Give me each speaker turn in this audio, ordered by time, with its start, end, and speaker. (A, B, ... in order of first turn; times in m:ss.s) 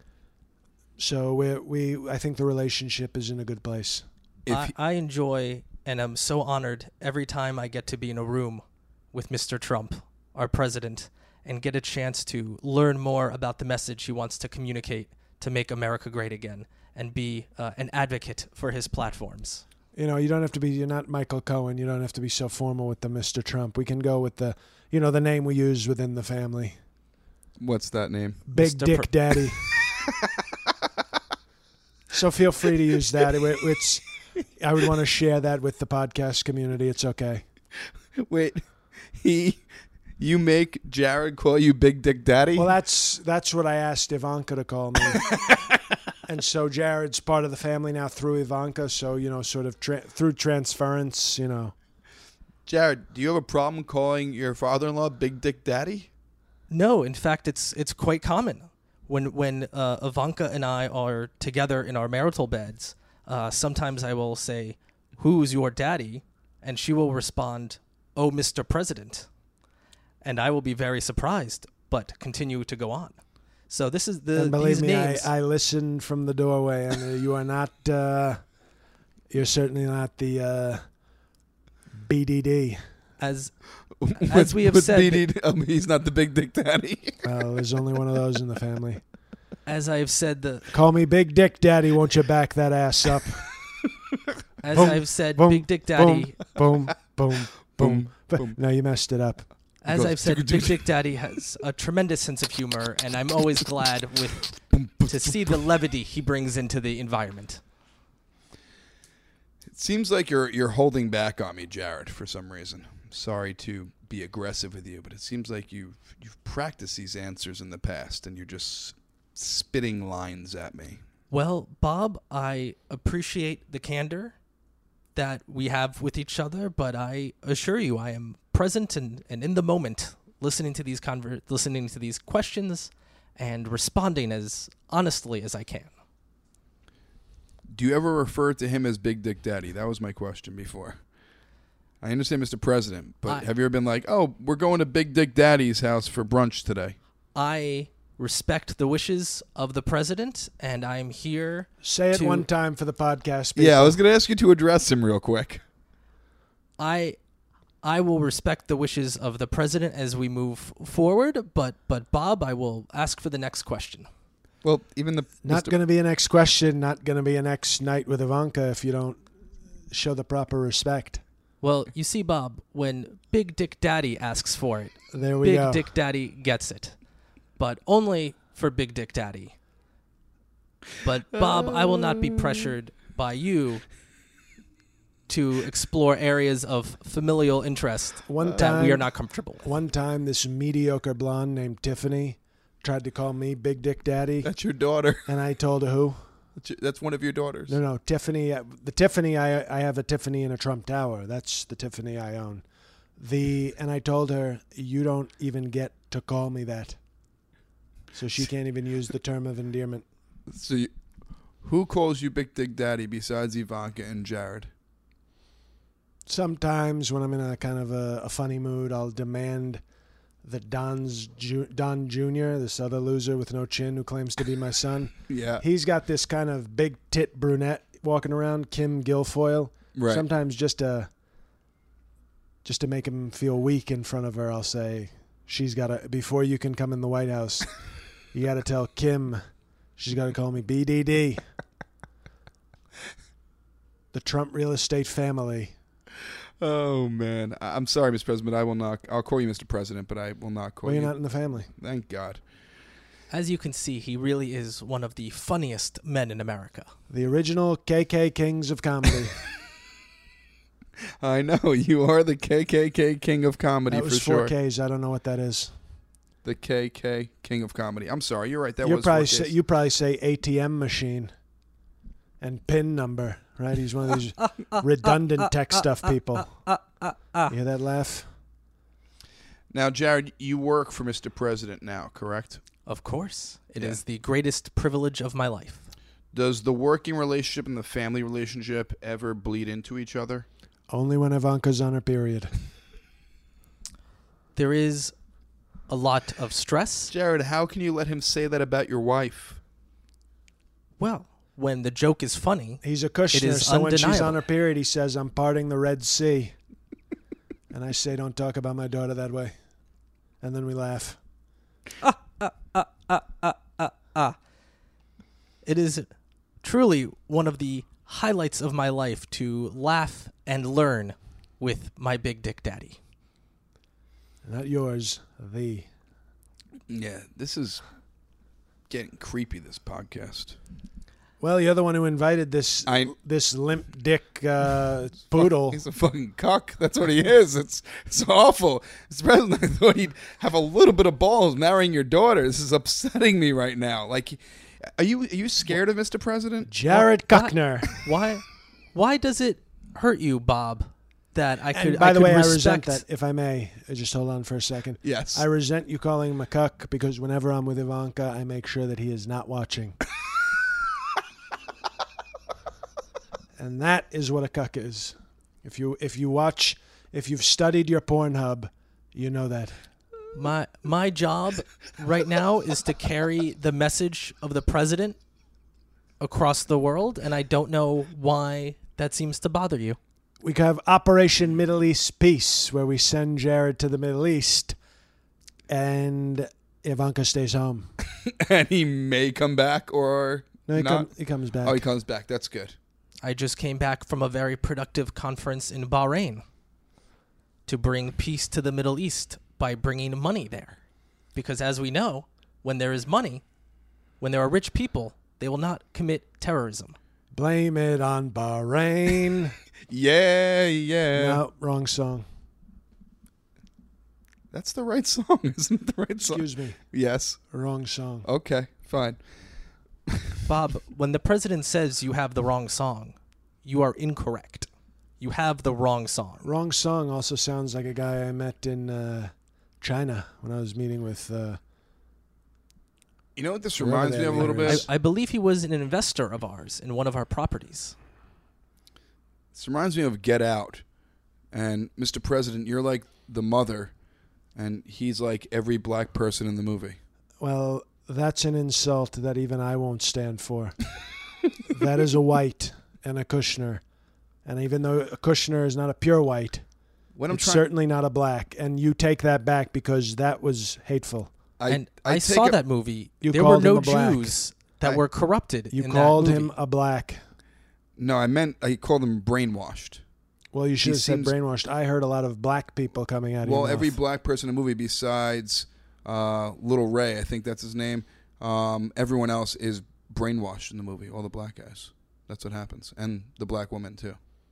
0:01.0-0:04.0 A
0:04.4-0:04.8 B
0:04.5-0:19.6 C
0:20.0-0:26.8 A
0:27.6-0:28.4 B
0:28.5-0:29.6 A
0:28.6-0:29.3 C
0:32.1-0:34.0 A
0:34.6-0:37.4 A
0:38.1-0:39.6 B
0:40.2-0:42.7 B
0:42.6-0:45.2 A
0:45.3-0:45.6 B
0:46.2-0:51.7 A
0:52.6-0:56.1 B
0:56.7-1:09.3 C
1:10.2-1:13.2 C
1:13.7-1:15.3 C
1:14.4-1:18.4 A
1:19.3-1:20.8 A
1:22.0-1:22.8 A
1:23.2-1:23.5 C
1:24.0-1:27.2 B
1:24.2-1:25.2 C
1:27.2-1:29.0 A
1:29.6-1:30.7 C
1:30.7-1:33.5 A
1:34.6-1:36.4 C
1:34.7-1:39.5 A
1:37.8-1:38.6 B
1:39.8-1:47.6 C
1:39.9-1:40.9 B
1:44.7-1:45.6 B
1:49.7-2:01.0 B
2:01.3-2:04.4 C
2:05.1-2:15.9 C
2:17.7-2:21.0 B
2:22.0-2:27.0 B
2:27.4-2:32.4 C
2:31.8-2:34.0 A
2:33.6-2:35.6 B
2:36.8-2:37.2 C
2:37.8-2:44.1 C
2:44.6-2:45.8 B
2:45.4-2:49.2 A
2:49.9-2:51.2 A
2:51.6-2:56.9 C
2:55.1-2:55.9 A
2:57.6-2:59.5 C
3:01.0-3:03.8 C
3:01.4-3:02.4 B
3:05.3-3:09.7 C
3:08.3-3:09.1 A
3:09.6-3:14.5 A
3:14.4-3:15.2 B
3:15.2-3:16.2 A
3:16.6-3:17.8 B
3:17.7-3:22.6 A
3:23.2-3:27.0 A
3:28.1-3:30.0 A
3:30.5-3:30.9 B
3:31.6-3:34.7 B
3:36.3-3:39.8 A
3:40.4-3:51.1 A
3:45.3-3:45.6 B
3:49.9-3:50.2 B
3:52.6-3:57.7 A
3:58.3-3:59.4 A
4:00.0-4:01.4 A
4:04.1-4:05.7 A
4:06.6-4:11.1 B
4:10.8-4:11.7 A
4:11.8-4:12.4 B
4:13.3-4:16.9 C
4:17.1-4:19.4 A
4:21.2-4:24.5 B
4:23.9-4:25.7 A
4:26.4-4:29.5 B
4:28.8-4:31.3 A
4:32.4-4:36.5 A
4:34.7-4:37.5 C
4:37.5-4:38.3 A
4:39.7-4:42.6 B
4:42.9-4:45.9 C
4:46.3-4:50.4 B
4:50.9-4:52.5 A
4:54.6-4:55.1 C
4:55.9-4:57.1 C
4:57.1-4:59.6 B
5:01.0-5:04.4 C
5:02.8-5:06.6 A
5:07.7-5:09.5 A
5:10.4-5:11.2 A
5:12.0-5:14.4 C
5:15.6-5:16.1 C
5:16.6-5:23.0 C
5:24.4-5:25.9 A
5:26.9-5:27.8 B
5:28.9-5:30.6 B
5:31.4-5:35.8 A
5:32.9-5:33.1 B
5:35.4-5:46.7 B
5:46.7-5:48.1 A
5:46.9-5:53.0 C
5:51.7-6:00.0 A
5:55.0-5:55.4 B
6:03.6-6:09.8 A
6:10.3-6:15.2 C
6:16.2-6:20.0 C
6:20.4-6:24.8 A
6:25.7-6:27.9 A
6:28.0-6:31.1 B
6:30.7-6:31.8 A
6:31.6-6:32.8 B
6:33.2-6:36.4 C
6:37.7-6:40.8 C
6:41.4-6:43.4 C
6:44.2-6:47.0 C
6:47.3-6:49.6 A
6:49.9-6:51.4 B
6:51.1-6:52.2 A
6:54.5-6:57.4 B
6:56.2-6:56.8 A
6:57.5-6:58.3 A
6:58.2-6:59.2 B
7:00.1-7:00.4 B
7:00.4-7:04.7 C
7:05.2-7:06.4 C
7:06.4-7:11.6 A
7:13.4-7:14.9 B
7:13.8-7:14.9 A
7:14.4-7:17.9 C
7:19.5-7:20.8 B
7:21.5-7:23.9 B
7:24.6-7:27.0 B
7:27.4-7:30.8 A
7:31.7-7:33.8 A
7:34.4-7:36.6 A
7:37.1-7:37.6 B
7:37.3-7:41.3 A
7:41.6-7:42.6 B
7:41.7-7:46.5 C
7:43.2-7:44.3 A
7:45.7-7:47.2 A
7:48.0-7:50.0 B
7:50.5-7:53.9 A
7:50.8-7:51.3 B
7:53.4-8:04.2 B